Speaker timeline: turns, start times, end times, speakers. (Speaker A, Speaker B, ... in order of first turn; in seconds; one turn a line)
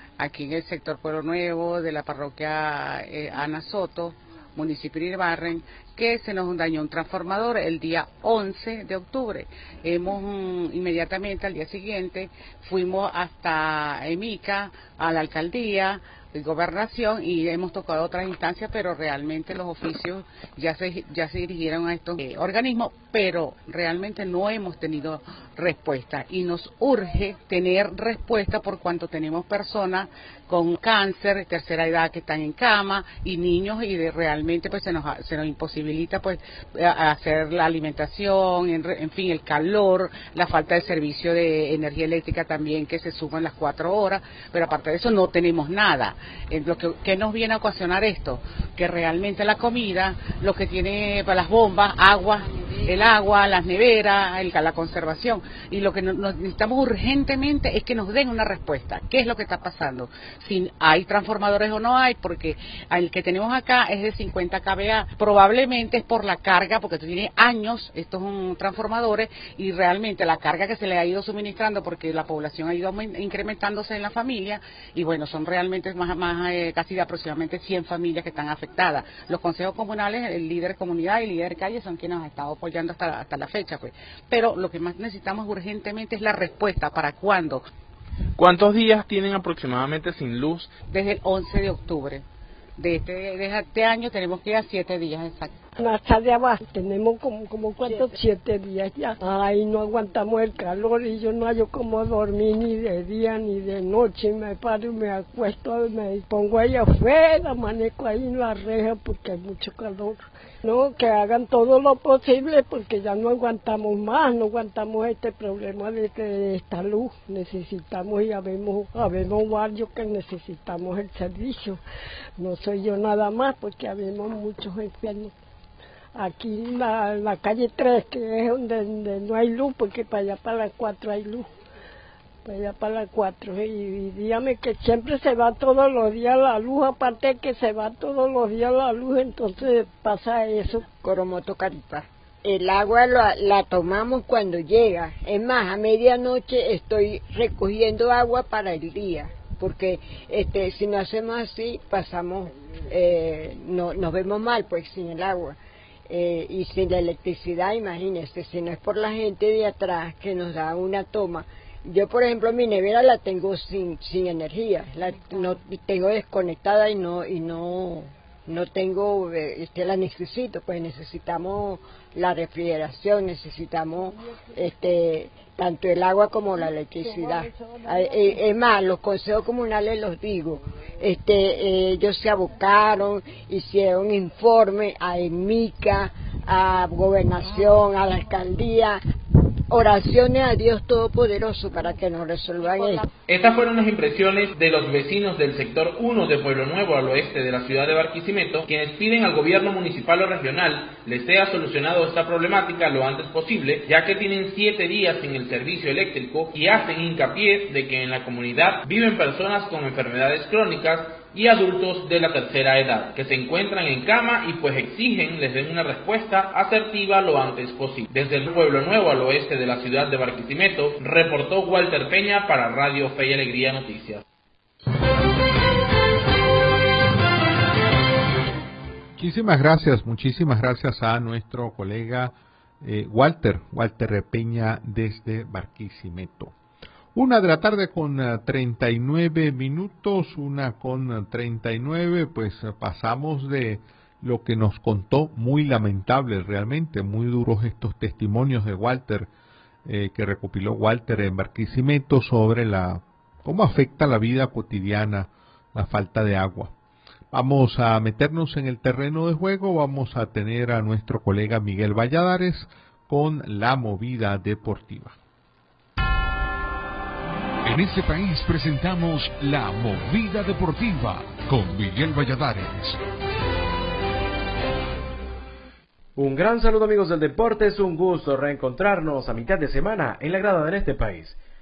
Speaker A: 0.2-87.7
Speaker A: 90.9-92.2
Speaker A: 92.8-95.6
Speaker B: 95.8-121.8
Speaker C: 97.8-98.2
Speaker B: 122.4-125.3
Speaker B: 126.2-131.5
Speaker B: 132.4-140.9
Speaker C: 140.9-155.6
Speaker C: 156.1-189.0
Speaker B: 177.0-178.4
Speaker C: 189.7-193.1
Speaker D: 193.3-224.2
Speaker E: 229.2-236.5
Speaker E: 237.1-249.3
Speaker E: 249.8-256.7
Speaker E: 257.3-265.1
Speaker F: 267.6-273.0
Speaker G: 276.1-281.4